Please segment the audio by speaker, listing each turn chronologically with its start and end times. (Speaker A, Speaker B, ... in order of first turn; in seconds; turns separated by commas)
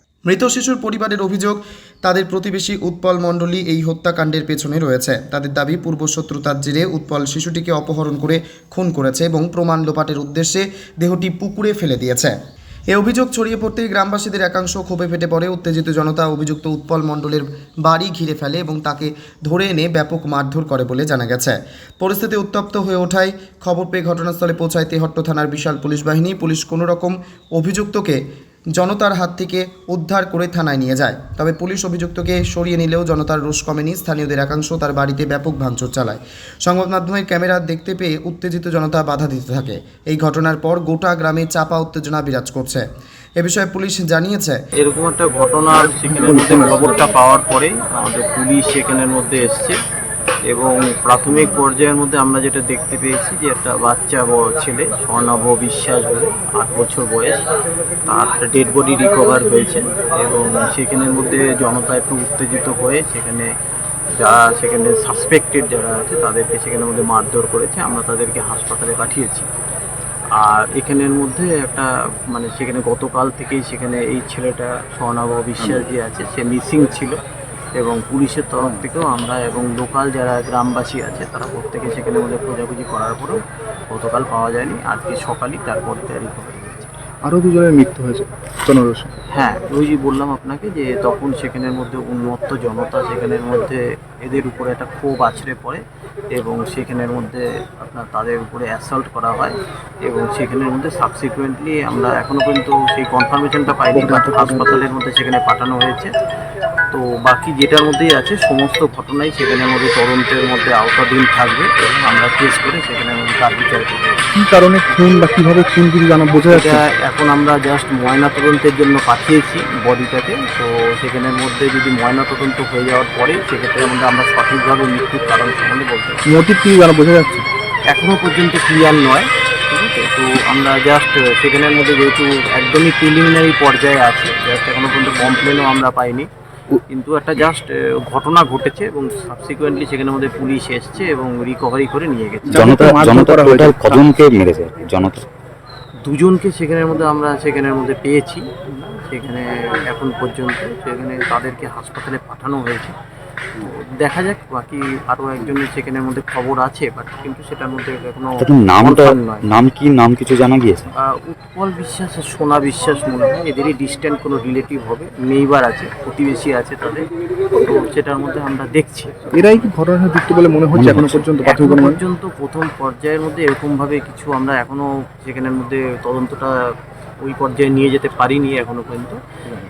Speaker A: 0.2-12.3, Speaker A: 12.9-28.2, Speaker A: 28.8-42.8, Speaker A: 43.4-44.6, Speaker B: 44.8-49.8, Speaker C: 46.1-47.1, Speaker B: 50.5-57.4, Speaker B: 58.0-63.5, Speaker B: 64.2-69.5, Speaker B: 70.3-77.2, Speaker B: 77.8-86.9, Speaker C: 87.2-89.1, Speaker B: 89.3-106.1, Speaker C: 103.9-104.8, Speaker B: 106.9-114.1, Speaker C: 114.3-116.8, Speaker B: 116.5-126.2, Speaker C: 126.2-127.4, Speaker B: 127.9-136.3, Speaker B: 136.9-142.7, Speaker C: 142.4-143.9, Speaker D: 142.5-145.2, Speaker B: 146.0-152.9, Speaker B: 153.6-159.4, Speaker D: 158.4-160.9, Speaker B: 161.1-167.1, Speaker B: 167.6-169.2, Speaker C: 169.3-172.0, Speaker D: 170.7-171.1, Speaker B: 170.9-179.2